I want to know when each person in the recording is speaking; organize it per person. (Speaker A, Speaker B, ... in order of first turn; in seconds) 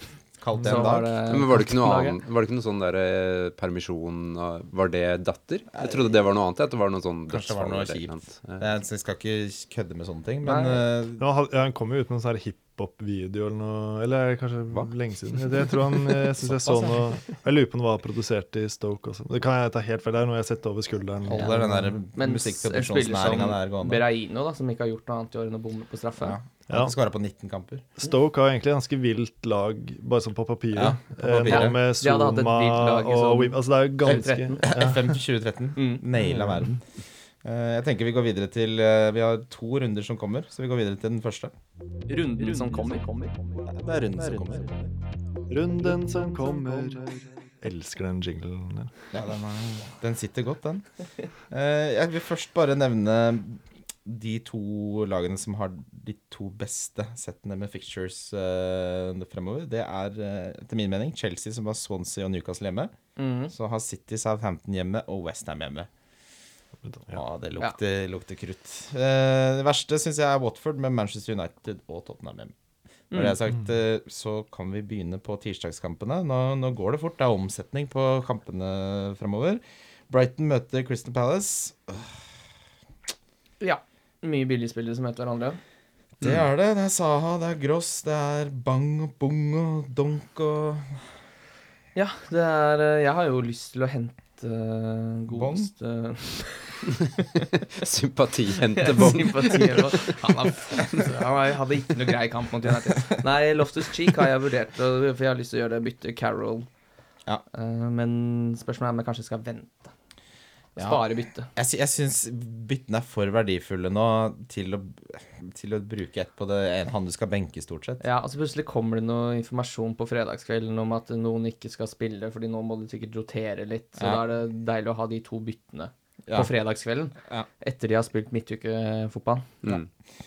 Speaker A: 0.4-1.1, 5.8-6.0, 7.3-11.2, 16.4-17.0, 21.3-24.0, 26.2-27.9, 30.7-31.8, 34.1-36.8, 37.4-41.5, 43.7-44.7, 49.1-50.9, 51.5-62.9, 63.5-65.9, 67.1-72.5, 73.1-82.1, 86.2-91.0, 95.3-95.7, 110.8-111.0, 111.5-118.0
Speaker B: 0.6-2.2, 10.4-10.8, 22.1-26.4, 31.4-34.7, 35.8-36.0, 42.1-43.4, 63.2-63.5, 73.1-73.4, 83.6-85.6, 91.9-97.5, 98.7-106.7, 107.5-109.9, 110.8-111.5, 118.0-129.7
Speaker C: 1.3-8.7, 14.7-15.5, 97.7-100.1
Speaker D: 11.2-21.9, 26.7-26.9, 28.0-35.2, 36.2-36.7, 45.5-48.9, 66.8-67.2